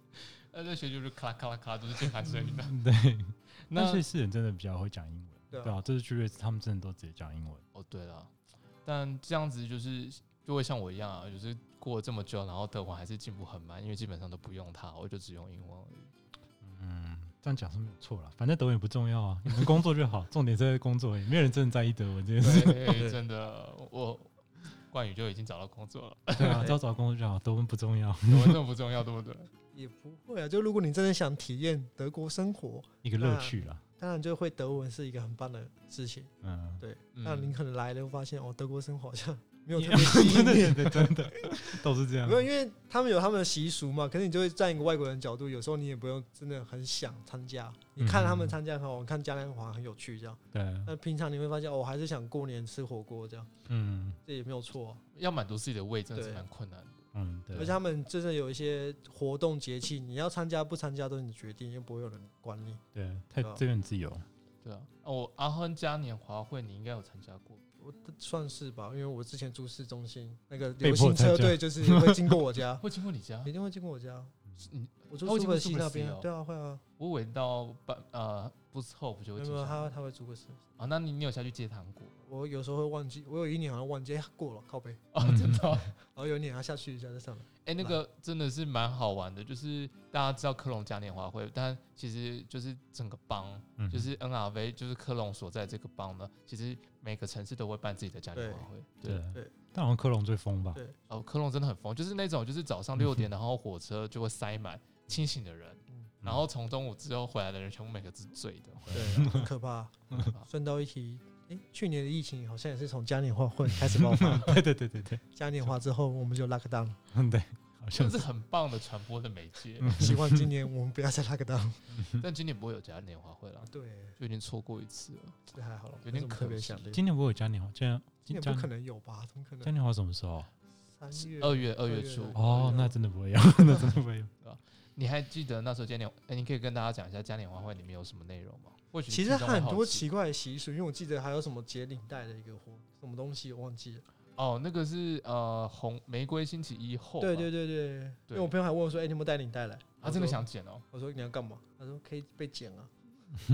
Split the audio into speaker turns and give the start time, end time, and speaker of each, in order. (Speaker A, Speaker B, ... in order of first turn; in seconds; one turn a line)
Speaker A: 0.5-2.9
Speaker B: 2.2-7.6
Speaker A: 3.7-4.0
Speaker C: 5.5-5.8
Speaker A: 7.7-8.3
Speaker A: 8.8-16.1
Speaker B: 16.6-23.1
Speaker A: 22.4-24.3
Speaker C: 22.9-23.2
Speaker A: 24.9-26.8
Speaker B: 26.4-28.6
Speaker A: 28.2-29.5
Speaker C: 29.7-53.5
Speaker B: 33.0-33.8
Speaker B: 36.4-36.8
Speaker A: 37.1-37.5
Speaker B: 39.7-42.5
Speaker B: 48.0-48.6
Speaker B: 50.5-50.9
Speaker B: 53.7-54.2
Speaker C: 54.2-55.0
Speaker A: 55.1-57.0
Speaker C: 56.1-56.5
Speaker B: 57.1-57.8
Speaker C: 57.5-62.8
Speaker B: 62.9-64.2
Speaker A: 64.6-67.6
Speaker C: 67.8-72.8
Speaker B: 70.8-72.4
Speaker A: 72.8-73.5
Speaker C: 73.4-74.3
Speaker A: 74.6-76.3
Speaker C: 75.1-76.8
Speaker A: 77.0-79.9
Speaker C: 79.4-80.6
Speaker A: 80.8-82.1
Speaker C: 82.2-85.0
Speaker A: 85.1-85.9
Speaker B: 85.2-85.7
Speaker C: 86.0-87.9
Speaker A: 87.6-99.2
Speaker B: 93.8-94.1
Speaker C: 98.3-98.7
Speaker B: 99.0-100.8
Speaker A: 101.1-109.4
Speaker B: 103.0-103.2
Speaker B: 108.9-109.5
Speaker C: 108.9-114.6
Speaker A: 110.1-110.5
Speaker B: 113.7-115.2
Speaker C: 115.3-117.0
Speaker B: 117.1-118.2
Speaker A: 117.9-119.9
Speaker B: 119.8-120.5
Speaker C: 119.8-122.0
Speaker B: 121.9-122.2
Speaker A: 122.2-125.5
Speaker C: 123.6-124.2
Speaker C: 125.5-127.0
Speaker A: 126.0-126.9
Speaker B: 126.9-128.7
Speaker C: 128.3-129.7
Speaker B: 129.6-130.5
Speaker C: 130.9-132.9
Speaker A: 131.1-132.9
Speaker B: 132.3-134.3
Speaker C: 133.6-133.9
Speaker A: 134.4-140.1
Speaker C: 139.1-144.0
Speaker A: 144.4-147.5
Speaker C: 147.2-152.9
Speaker A: 150.0-150.8